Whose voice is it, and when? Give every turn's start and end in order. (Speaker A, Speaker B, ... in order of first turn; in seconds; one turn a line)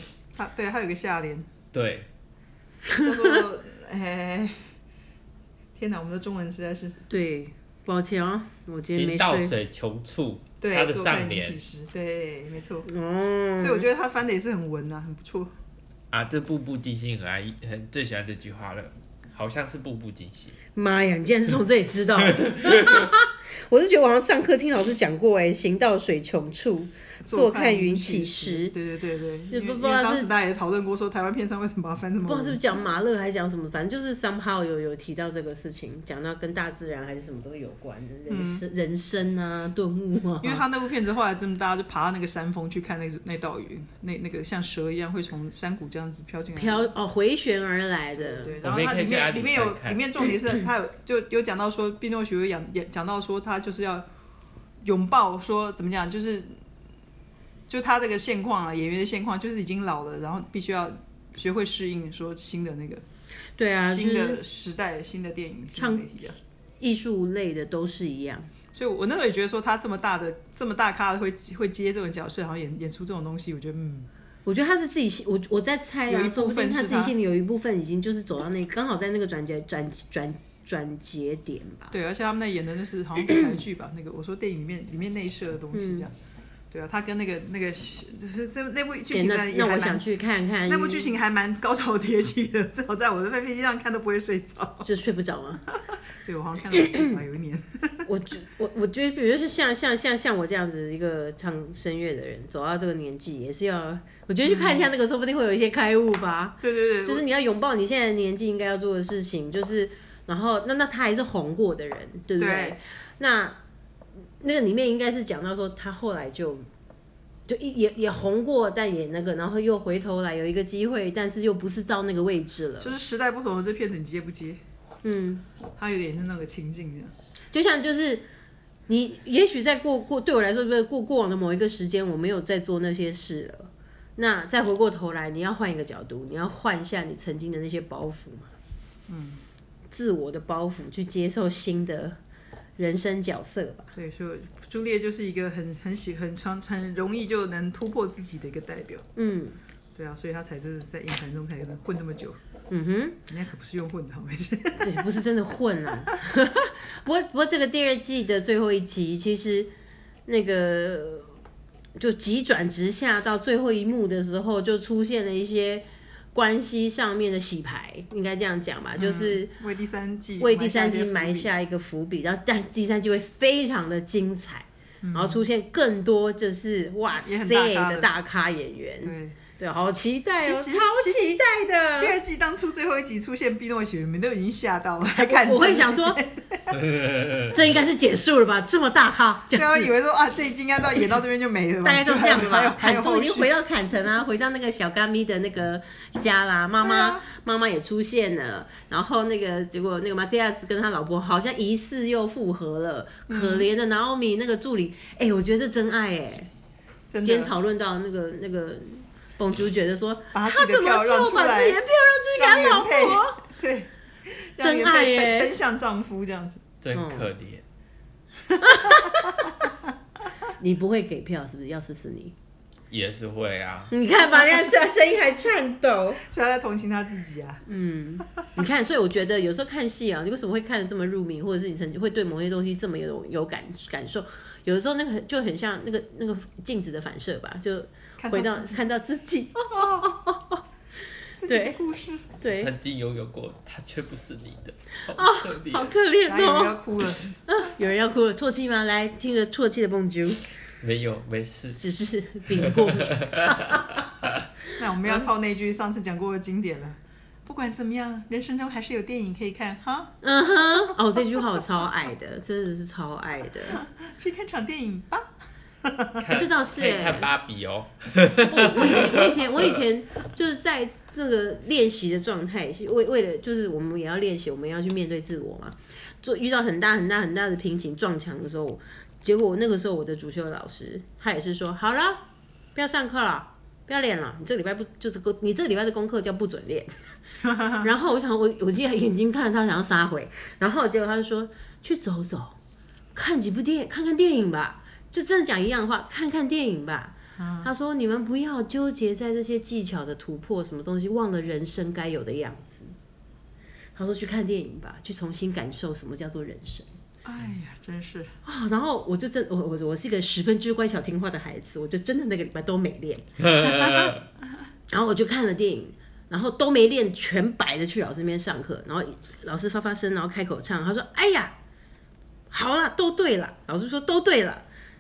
Speaker A: 0.3-1.5
Speaker B: 1.7-2.1
Speaker C: 2.9-3.3
Speaker A: 3.0-4.7
Speaker A: 5.8-7.0
Speaker C: 7.1-9.5
Speaker B: 8.9-11.6
Speaker A: 10.6-12.9
Speaker C: 12.9-13.9
Speaker A: 13.6-15.5
Speaker B: 16.1-20.6
Speaker C: 20.8-28.7
Speaker B: 22.3-23.1
Speaker A: 27.2-32.6
Speaker C: 29.5-30.3
Speaker C: 32.2-40.6
Speaker A: 38.3-38.6
Speaker A: 40.4-46.9
Speaker C: 46.5-48.6
Speaker A: 48.2-54.1
Speaker B: 48.6-50.0
Speaker A: 54.8-56.5
Speaker A: 57.7-63.0
Speaker C: 63.6-64.4
Speaker A: 63.9-66.4
Speaker C: 65.8-66.0
Speaker C: 66.8-68.5
Speaker A: 68.7-74.1
Speaker C: 74.5-81.9
Speaker A: 76.1-77.2
Speaker A: 81.9-86.1
Speaker C: 85.7-86.1
Speaker A: 86.7-90.0
Speaker C: 89.1-91.1
Speaker A: 90.7-94.9
Speaker C: 94.8-95.6
Speaker A: 95.7-98.1
Speaker C: 96.7-97.1
Speaker C: 98.1-113.6
Speaker A: 104.4-104.9
Speaker A: 106.6-107.2
Speaker A: 112.4-112.8
Speaker C: 114.4-116.7
Speaker C: 117.5-122.9
Speaker A: 122.8-124.6
Speaker C: 125.0-125.4
Speaker A: 125.8-127.1
Speaker C: 127.5-128.2
Speaker C: 128.9-138.5
Speaker A: 139.1-139.4
Speaker C: 139.9-142.2
Speaker C: 142.8-143.9
Speaker A: 143.9-149.1
Speaker C: 149.2-149.6
Speaker A: 149.9-152.4
Speaker C: 152.7-153.2
Speaker A: 153.3-155.2
Speaker C: 154.8-159.7
Speaker C: 160.3-161.3
Speaker C: 162.0-169.5
Speaker A: 169.0-171.5
Speaker C: 170.4-182.2
Speaker A: 175.0-175.5
Speaker A: 177.2-178.1
Speaker A: 179.0-179.4
Speaker A: 180.4-181.4
Speaker A: 182.0-186.7
Speaker C: 185.2-186.2
Speaker B: 186.7-187.6
Speaker C: 187.5-189.9
Speaker A: 189.5-193.5
Speaker C: 191.8-206.5
Speaker A: 196.8-197.2
Speaker A: 203.3-203.7
Speaker A: 207.1-207.5
Speaker C: 207.2-213.4
Speaker A: 210.3-211.8
Speaker A: 212.4-216.7
Speaker C: 214.6-215.5
Speaker B: 216.8-217.6
Speaker C: 216.9-217.3
Speaker A: 218.6-219.7
Speaker C: 218.6-219.5
Speaker C: 220.6-222.3
Speaker B: 222.9-223.9
Speaker C: 223.9-226.2
Speaker A: 224.1-224.9
Speaker A: 226.2-227.6
Speaker C: 227.7-240.6
Speaker A: 238.2-238.8
Speaker A: 239.7-240.1
Speaker A: 241.4-242.3
Speaker C: 241.5-241.8
Speaker C: 242.4-242.7
Speaker B: 242.5-245.9
Speaker C: 245.1-246.8
Speaker A: 246.3-247.4
Speaker C: 247.5-250.4
Speaker B: 250.8-251.8
Speaker C: 251.8-254.1
Speaker B: 252.6-254.4
Speaker A: 254.8-260.1
Speaker C: 260.2-263.8
Speaker A: 263.7-265.3
Speaker A: 265.8-266.3
Speaker B: 266.2-269.8
Speaker C: 266.3-267.3
Speaker C: 268.4-282.2
Speaker C: 282.8-286.9
Speaker A: 287.4-287.9
Speaker C: 287.8-292.6
Speaker C: 293.1-302.9
Speaker A: 297.4-297.7
Speaker C: 304.0-306.9
Speaker A: 307.2-308.3
Speaker C: 308.4-314.1
Speaker B: 313.4-314.2
Speaker C: 314.9-321.5
Speaker C: 322.5-324.6